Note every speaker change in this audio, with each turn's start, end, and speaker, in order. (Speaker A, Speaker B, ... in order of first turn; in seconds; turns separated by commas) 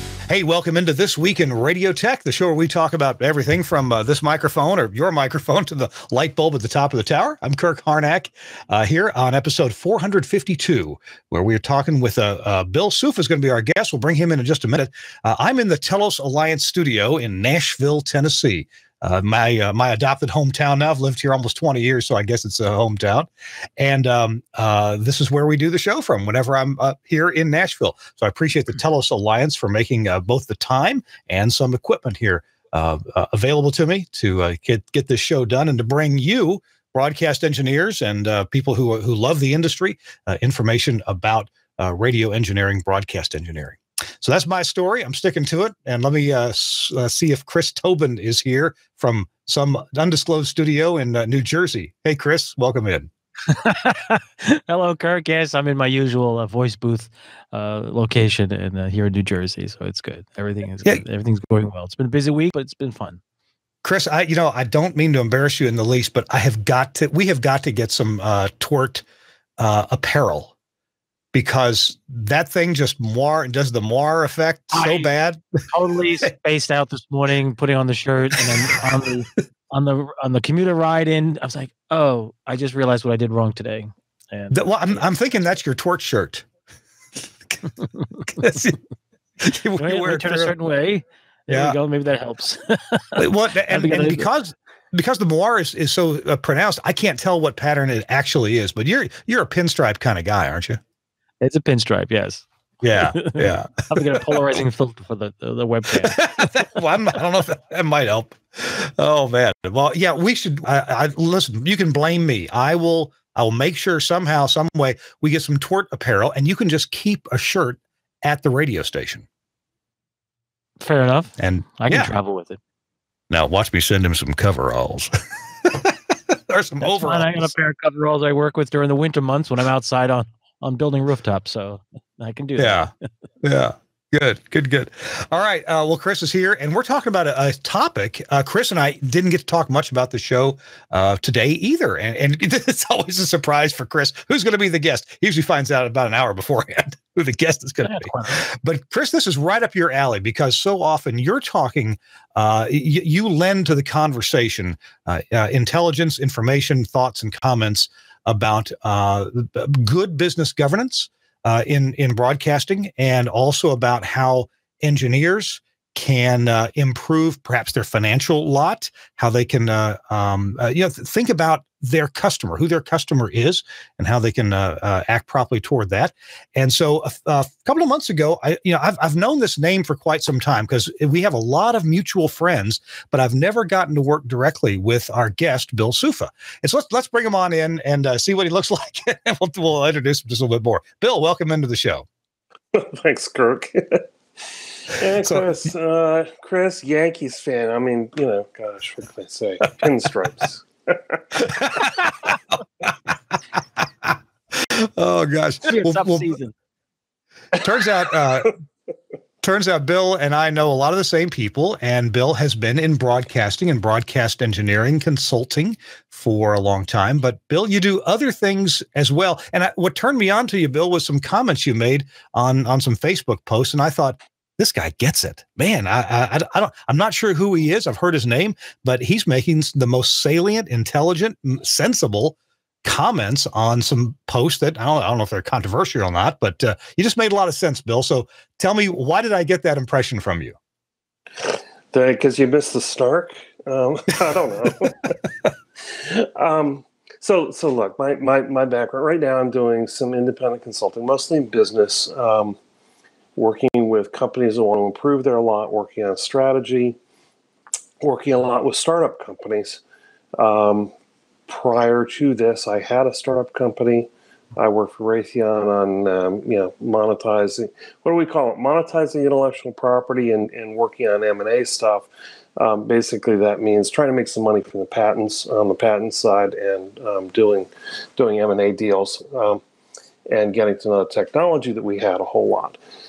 Speaker A: 0.3-53.1, Speaker B: 53.5-63.2, Speaker A: 63.8-69.0, Speaker A: 69.6-70.5, Speaker A: 71.3-75.4, Speaker B: 74.7-75.0, Speaker B: 75.7-85.0, Speaker A: 78.4-78.8, Speaker A: 84.5-86.5, Speaker A: 88.2-88.8, Speaker A: 89.4-90.5, Speaker B: 89.8-94.3, Speaker A: 91.5-91.8, Speaker A: 93.2-100.8, Speaker B: 101.4-102.5, Speaker A: 102.8-104.2, Speaker B: 103.0-106.2, Speaker A: 106.0-119.2, Speaker B: 120.8-122.6, Speaker A: 121.4-122.1, Speaker A: 123.3-125.1, Speaker A: 125.7-125.9, Speaker A: 126.5-127.5, Speaker B: 126.8-132.9, Speaker A: 132.6-132.9, Speaker A: 133.4-192.1, Speaker B: 147.8-148.4, Speaker C: 192.7-194.1, Speaker C: 194.9-201.2, Speaker A: 201.4-202.9, Speaker A: 203.8-206.3, Speaker B: 205.7-206.5, Speaker A: 207.5-208.5, Speaker A: 209.4-240.6, Speaker C: 241.4-245.2, Speaker C: 245.9-252.6, Speaker C: 253.4-257.0, Speaker C: 258.0-259.8, Speaker C: 260.4-260.9, Speaker C: 261.5-279.6, Speaker C: 280.3-282.8